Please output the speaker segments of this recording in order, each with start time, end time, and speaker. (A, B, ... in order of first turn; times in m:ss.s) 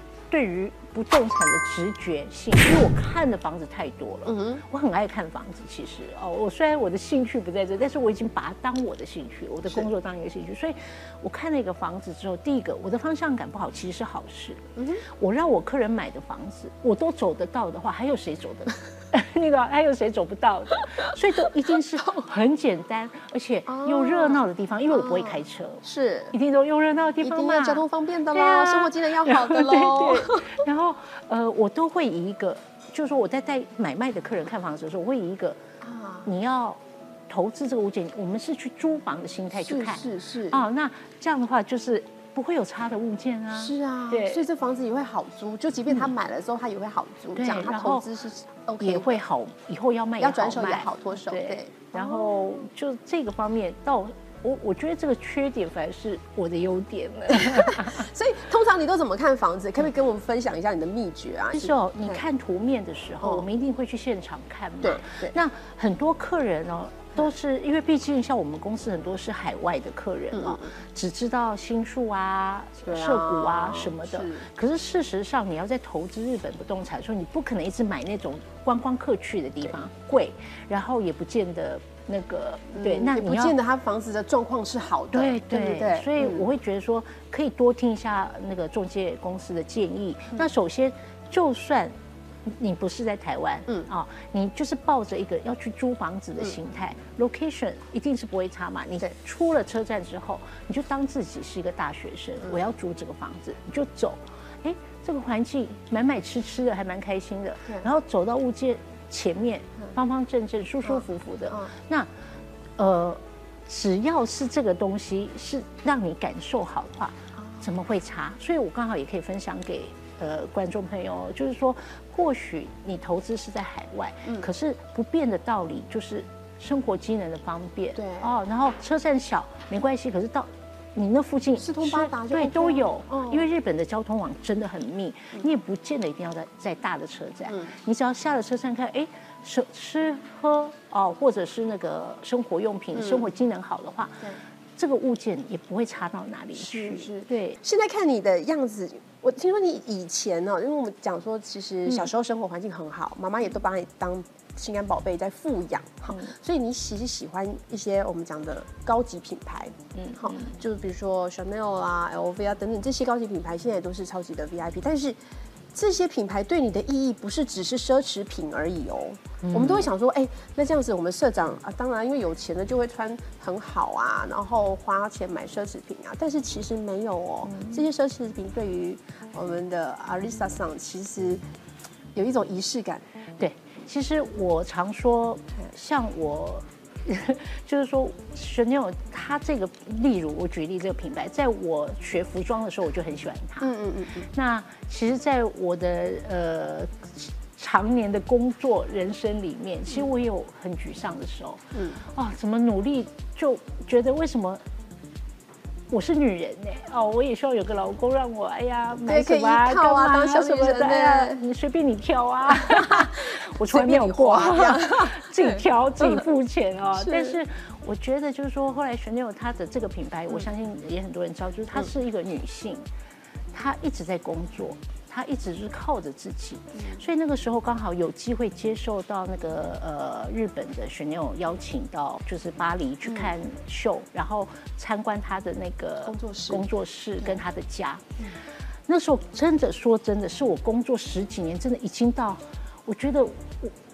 0:00.3-0:35.6 A
0:04.3-0:04.6 B
0:14.8-0:15.0 B
0:23.7-0:26.3 B
0:27.2-0:30.6 B
0:35.8-0:36.3 B
0:36.3-0:44.5 A
0:39.6-0:40.6 B
0:43.6-0:49.2 B
0:47.4-0:48.1 A
0:48.8-0:58.0 A
0:50.2-0:52.4 B
0:57.4-1:02.2 B
1:01.5-1:23.6 A
1:04.8-1:05.3 B
1:10.3-1:10.7 B
1:12.9-1:14.5 B
1:22.7-1:26.4 B
1:25.1-1:52.1 A
1:50.9-1:51.7 B
1:52.8-2:24.2 A
1:57.4-1:57.6 B
2:08.0-2:08.3 B
2:11.6-2:13.5 B
2:23.0-2:23.3 B
2:24.8-2:27.6 A
2:26.6-2:45.2 B
2:40.0-2:40.6 A
2:45.7-3:01.4 B
2:49.4-2:49.9 A
2:57.5-2:57.8 A
3:02.2-3:03.1 B
3:03.4-3:13.7 A
3:13.6-3:14.3 B
3:14.3-3:21.6 A
3:21.8-3:22.0 B
3:22.1-3:24.6 A
3:25.9-3:42.9 A
3:29.0-3:31.4 B
3:32.7-3:33.1 B
3:33.7-3:36.3 B
3:37.0-3:37.4 B
3:43.5-3:58.0 A
3:56.0-3:56.7 B
3:58.9-4:03.7 A